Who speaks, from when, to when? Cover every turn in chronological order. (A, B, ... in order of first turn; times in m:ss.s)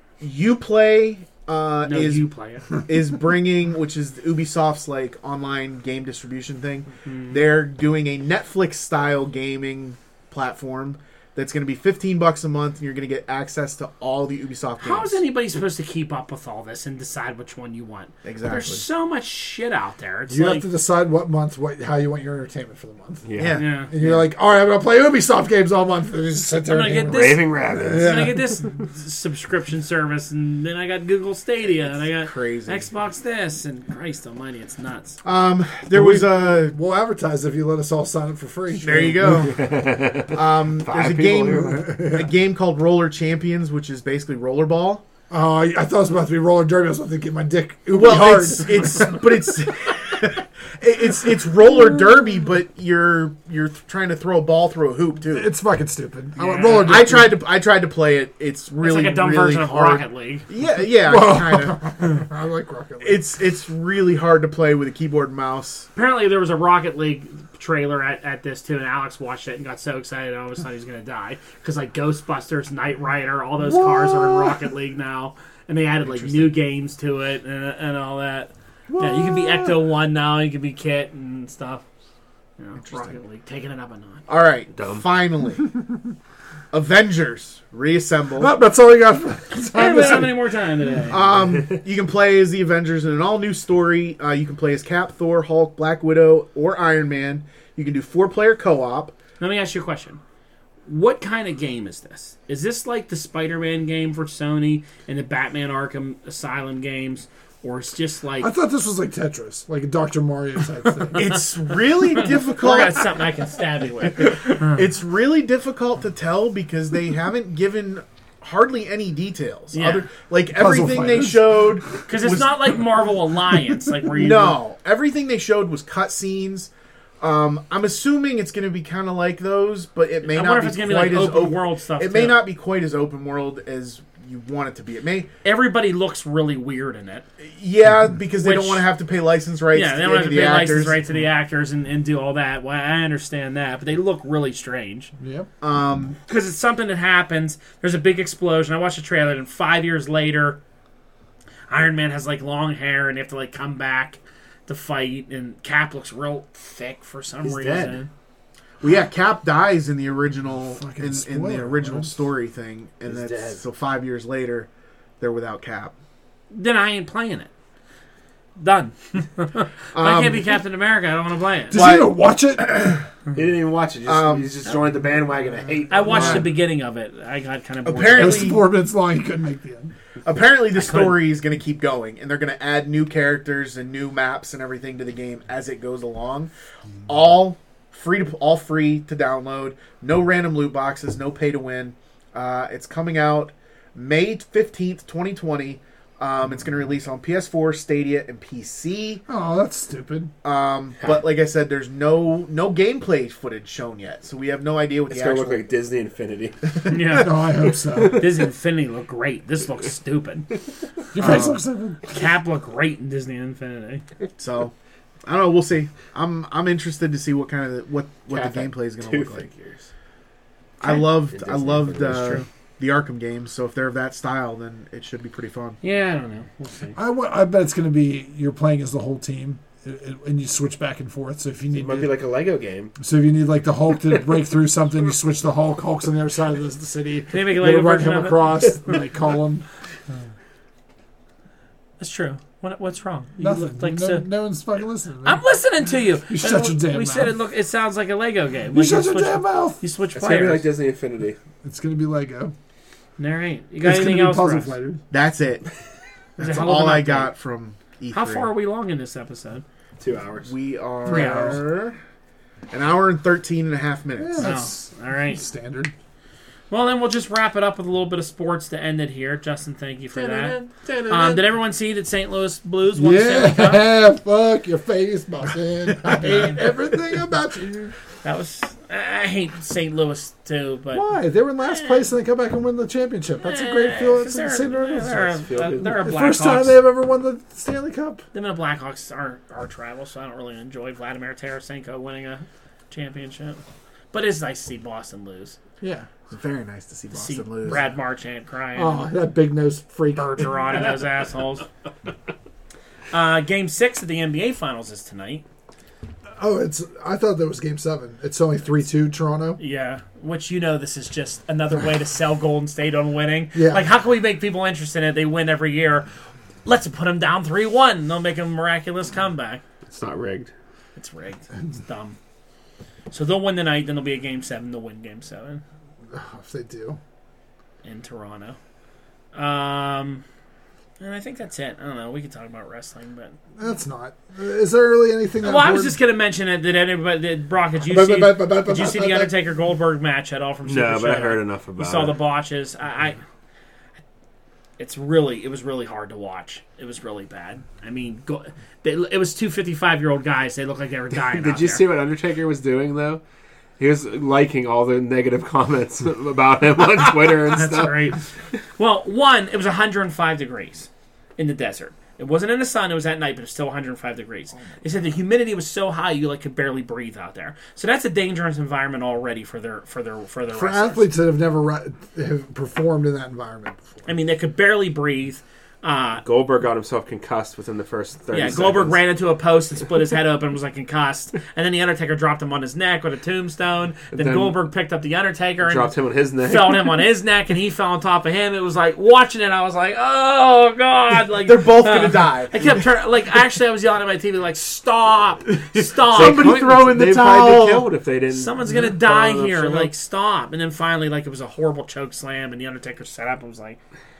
0:00.2-0:02.2 A
0:01.8-0:02.7 B
0:02.8-0:15.2 A
0:07.0-0:07.4 B
0:14.8-0:20.7 B
0:18.2-0:18.8 A
0:20.3-0:23.2 C
0:23.2-0:23.6 D
0:23.4-0:24.3 A
0:23.5-0:23.9 B
0:23.9-0:28.4 C
0:26.6-0:35.2 B
0:27.1-0:28.3 D
0:31.8-0:32.9 A
0:35.2-0:36.8 A
0:35.9-0:39.5 C
0:38.8-0:39.8 A
0:39.2-0:41.8 D
0:40.3-0:45.0 A
0:41.7-0:42.3 C
0:45.3-0:49.2 C
0:47.9-0:55.5 A
0:55.3-0:57.4 C
0:56.4-0:56.9 B
0:56.6-1:01.9 A
0:58.8-1:00.4 B
1:00.8-1:03.2 C
1:03.0-1:05.9 A
1:05.9-1:21.8 B
1:13.6-1:14.6 C
1:16.0-1:16.6 A
1:18.9-1:19.8 C
1:22.6-1:24.2 B
1:22.8-1:23.1 A
1:24.3-1:25.8 A
1:24.7-1:25.1 D
1:26.7-1:28.6 A
1:28.4-1:30.4 C
1:29.7-1:31.2 B
1:31.1-1:39.1 A
1:39.4-1:40.2 B
1:40.8-1:48.5 B
1:48.4-1:51.4 C
1:51.2-1:53.2 A
1:52.2-1:54.6 B
1:54.0-2:02.8 A
1:59.7-2:00.0 B
2:00.5-2:01.7 C
2:02.1-2:04.6 B
2:04.1-2:15.3 A
2:10.2-2:12.4 B
2:15.4-2:17.2 B
2:17.4-2:21.0 A
2:18.4-2:18.9 B
2:19.7-2:25.1 B
2:25.2-2:25.5 C
2:25.6-2:26.2 A
2:26.3-2:30.6 B
2:31.7-2:38.1 B
2:37.4-2:38.0 D
2:38.8-2:44.7 A
2:40.7-2:42.2 C
2:43.0-2:43.6 D
2:45.2-2:45.9 A
2:46.5-2:47.5 B
2:48.6-2:51.8 B
2:49.9-2:50.5 A
2:51.7-2:52.9 C
2:51.7-2:53.0 A
2:53.3-2:56.6 D
2:54.0-2:54.5 A
2:55.9-2:58.6 B
2:56.0-2:56.5 C
2:57.8-2:58.7 A
2:58.1-2:59.9 C
3:00.2-3:06.5 A
3:00.7-3:01.2 B
3:07.1-3:19.2 A
3:19.3-3:20.3 C
3:20.4-3:25.6 A
3:25.1-3:26.8 D
3:26.9-3:27.4 B
3:27.2-3:28.3 C
3:28.0-3:30.5 B
3:31.1-3:32.0 C
3:31.2-3:31.5 A
3:32.1-3:34.0 B
3:34.4-3:34.7 A
3:35.2-3:39.5 A
3:38.3-3:39.9 D
3:40.8-3:45.8 A
3:40.9-3:42.4 D
3:45.8-3:47.0 B
3:47.0-3:52.2 C
3:51.8-3:52.9 D
3:53.0-3:59.6 C
3:57.3-3:59.0 B
4:02.0-4:04.3 B
4:03.4-4:05.4 C
4:05.2-4:10.6 B
4:06.3-4:07.3 C
4:08.7-4:09.8 C
4:10.1-4:11.4 D
4:11.6-4:12.5 C
4:13.2-4:14.7 B
4:13.8-4:15.0 C
4:15.1-4:15.6 A
4:16.4-4:17.3 B
4:16.4-4:18.5 A
4:18.1-4:19.6 B
4:20.0-4:20.5 D
4:20.4-4:22.0 A
4:21.0-4:21.6 C
4:21.1-4:21.6 B
4:22.7-4:24.6 A
4:24.2-4:25.9 C
4:24.4-4:25.4 B
4:26.7-4:33.9 B
4:30.2-4:31.4 C
4:30.8-4:31.4 D
4:32.9-4:37.9 C
4:38.2-4:41.1 B
4:40.9-4:48.2 C
4:41.6-4:42.1 B
4:43.4-4:46.8 B
4:45.4-4:45.9 D
4:48.3-4:53.6 B
4:54.1-4:55.6 B
4:55.8-4:56.1 C
4:56.3-4:57.8 A
4:57.1-4:59.1 B
4:58.7-5:00.8 C
5:00.4-5:01.6 B
5:03.1-5:05.4 B
5:06.4-5:09.6 C
5:09.6-5:16.0 B
5:13.5-5:13.9 C
5:16.6-5:19.6 B
5:19.9-5:20.5 D
5:21.0-5:22.2 B
5:23.1-5:25.6 B
5:26.1-5:27.0 C
5:27.8-5:28.6 B
5:29.3-5:30.2 B
5:31.0-5:33.4 B
5:33.6-5:36.0 C
5:35.4-5:43.2 B
5:37.8-5:39.3 C
5:40.6-5:42.2 D
5:44.8-5:51.8 B
5:51.3-5:53.2 D
5:53.8-5:58.2 D
5:57.5-6:11.1 B
6:10.5-6:13.8 C
6:14.0-6:16.2 B
6:16.2-6:19.0 D
6:18.3-6:25.9 B
6:24.1-6:24.6 D
6:25.6-6:27.0 D
6:26.4-6:36.6 B
6:31.4-6:32.8 A
6:36.0-6:37.9 A
6:36.1-6:39.9 D
6:38.3-6:43.8 B